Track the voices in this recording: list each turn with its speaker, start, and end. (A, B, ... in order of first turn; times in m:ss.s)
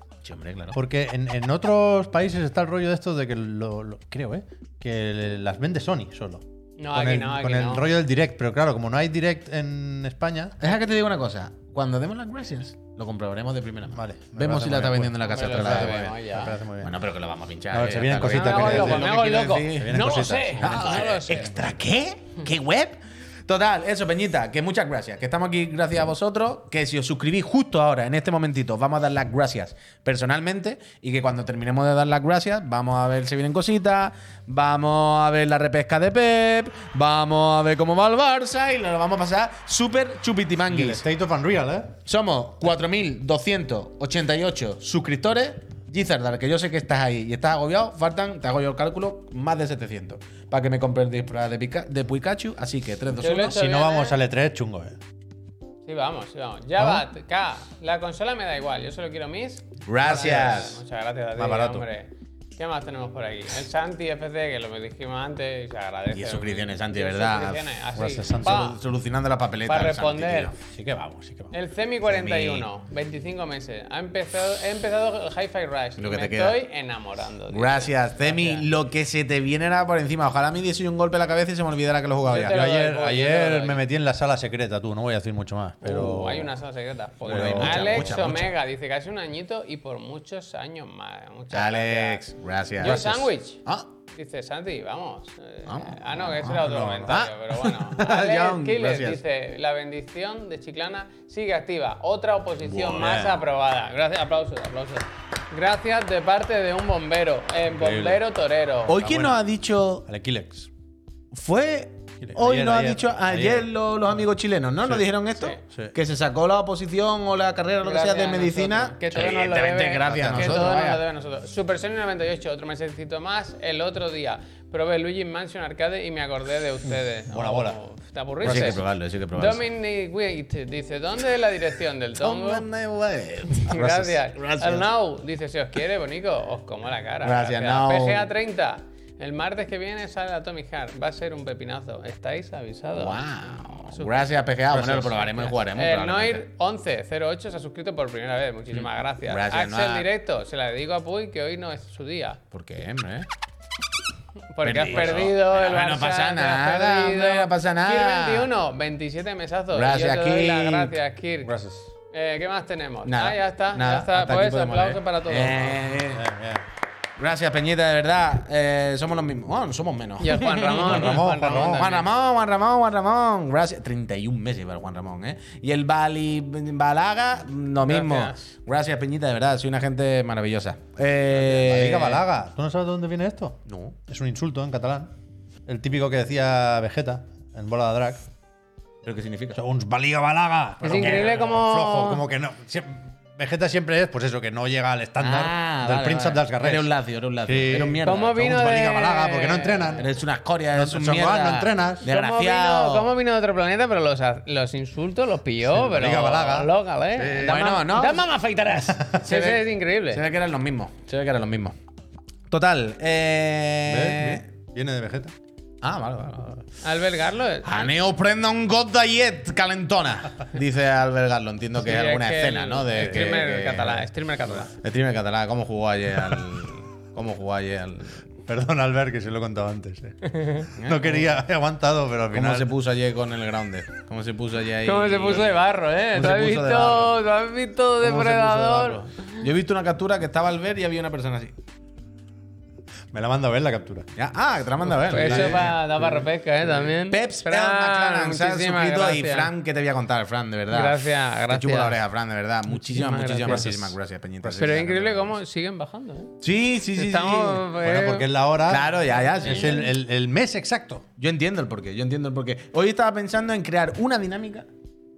0:00.2-0:00.8 A
0:00.7-0:10.6 B
0:06.8-0:07.9 C
0:10.6-0:41.0 A
0:13.9-0:17.0 B
0:15.2-0:16.6 C
0:17.7-0:21.6 B
0:18.3-0:21.6 C
0:40.7-0:42.0 B
0:42.1-0:53.6 A
0:53.2-0:54.2 C
0:53.5-0:55.0 B
0:55.9-1:08.8 C
0:56.8-0:57.0 B
0:59.9-1:00.8 A
1:00.1-1:00.5 B
1:01.4-1:01.8 B
1:06.1-1:07.8 A
1:08.0-1:08.7 B
1:08.3-1:10.6 A
1:09.7-1:10.6 C
1:10.7-1:11.5 B
1:11.5-1:18.7 C
1:12.0-1:12.7 A
1:16.0-1:16.6 A
1:17.5-1:22.6 A
1:22.3-1:23.8 C
1:22.3-1:26.5 B
1:25.8-1:32.2 C
1:27.2-1:28.5 A
1:27.2-1:28.2 B
1:31.5-1:33.9 A
1:32.8-1:49.0 C
1:35.7-1:39.2 A
1:36.6-1:37.2 B
1:42.8-1:43.4 B
1:47.7-1:48.2 B
1:48.9-1:50.1 A
1:49.0-1:49.4 B
1:50.1-1:50.7 B
1:51.3-2:01.0 A
1:52.2-1:53.7 B
1:55.7-1:55.9 B
1:57.8-2:08.8 C
2:00.1-2:00.5 B
2:07.3-2:07.8 B
2:08.4-2:08.8 B
2:08.4-2:09.6 A
2:09.3-2:12.6 C
2:12.2-2:14.9 A
2:13.6-2:23.2 C
2:17.2-2:18.3 A
2:23.0-2:26.4 A
2:23.9-2:24.3 C
2:24.7-2:25.3 B
2:25.6-2:32.4 C
2:28.7-2:30.1 A
2:32.5-2:33.3 A
2:34.6-2:41.5 C
2:34.6-2:38.5 A
2:39.7-2:41.0 A
2:41.4-2:41.9 B
2:42.1-2:45.8 C
2:43.0-2:46.3 A
2:46.1-2:46.7 B
2:47.2-3:02.2 A
2:50.2-2:52.1 C
2:50.9-2:51.9 B
2:57.8-2:58.5 C
3:01.3-3:05.1 B
3:03.7-3:04.0 A
3:05.7-3:08.2 B
3:09.0-3:09.6 A
3:09.5-3:16.9 B
3:10.8-3:12.2 C
3:11.0-3:11.3 A
3:15.2-3:18.6 A
3:17.4-3:20.1 B
3:18.0-3:20.0 C
3:20.0-3:23.1 A
3:20.7-3:22.1 B
3:22.0-3:30.2 C
3:25.7-3:27.7 B
3:27.4-3:28.3 A
3:29.2-3:31.8 A
3:32.5-3:34.4 A
3:33.9-3:35.3 B
3:35.8-3:36.7 A
3:36.8-3:37.9 C
3:37.6-3:44.1 A
3:41.8-3:44.7 C
3:43.0-3:43.4 B
3:44.7-3:48.2 A
3:48.5-3:52.7 B
3:50.2-3:50.7 C
3:50.8-3:51.3 A
3:52.3-3:57.2 A
3:54.8-3:59.4 C
3:58.0-4:01.5 A
4:03.1-4:04.1 B
4:04.2-4:05.7 A
4:04.9-4:05.8 B
4:05.0-4:09.5 C
4:07.0-4:15.4 A
4:10.7-4:12.0 C
4:12.7-4:13.7 C
4:13.5-4:13.9 B
4:14.5-4:16.4 C
4:16.4-4:17.7 A
4:17.0-4:18.3 C
4:17.8-4:21.1 B
4:18.6-4:19.9 A
4:19.1-4:19.8 C
4:21.2-4:24.7 A